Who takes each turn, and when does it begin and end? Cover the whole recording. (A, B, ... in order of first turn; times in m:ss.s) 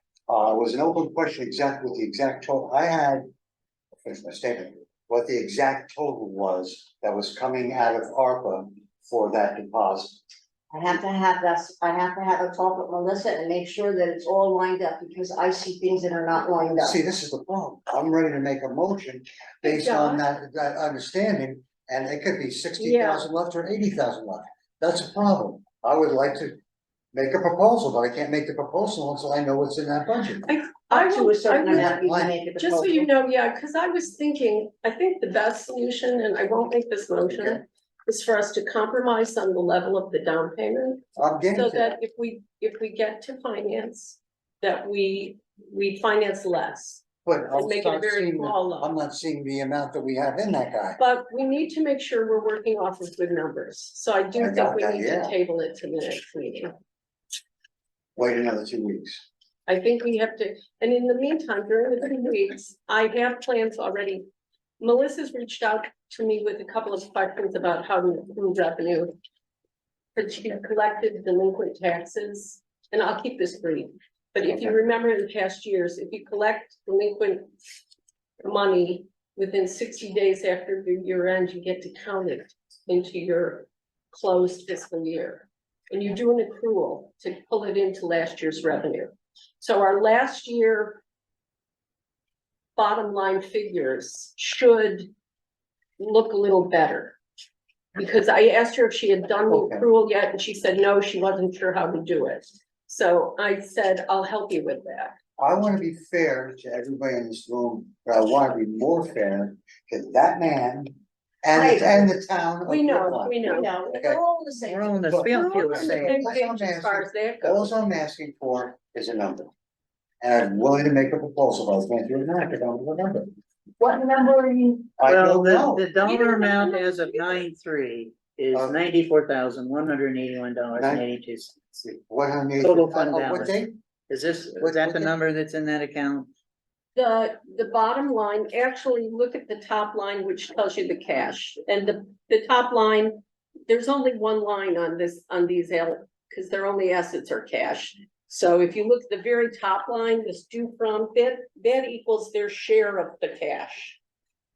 0:00.3-0:03.3 A
0:04.0-0:10.2 A
0:10.7-0:17.0 B
0:16.8-0:26.6 A
0:19.6-0:20.2 C
0:22.8-0:23.3 C
0:27.1-0:30.6 A
0:30.4-0:32.0 C
0:30.9-0:33.1 B
0:31.7-0:32.4 A
0:32.6-0:48.9 C
0:37.3-0:37.6 A
0:41.2-0:42.0 A
0:47.2-0:51.0 A
0:51.0-0:56.7 C
0:54.4-0:55.3 A
0:58.2-0:59.2 A
0:59.7-1:04.2 C
1:04.8-1:09.1 C
1:10.2-1:17.5 C
1:18.4-1:31.0 C
1:32.8-1:35.1 C
1:36.0-1:37.2 C
1:37.9-1:45.2 C
1:39.5-1:39.9 A
1:45.4-1:54.2 A
1:51.5-1:52.1 B
1:52.6-1:53.7 C
1:53.4-1:55.0 B
1:54.6-1:56.3 D
1:55.1-1:59.5 A
1:55.3-1:57.7 C
2:00.2-2:03.3 A
2:03.8-2:05.0 B
2:05.0-2:05.8 A
2:05.0-2:11.8 D
2:06.0-2:07.4 C
2:10.8-2:11.0 A
2:11.8-2:13.8 A
2:12.6-2:16.3 D
2:14.6-2:15.1 A
2:17.0-2:34.0 C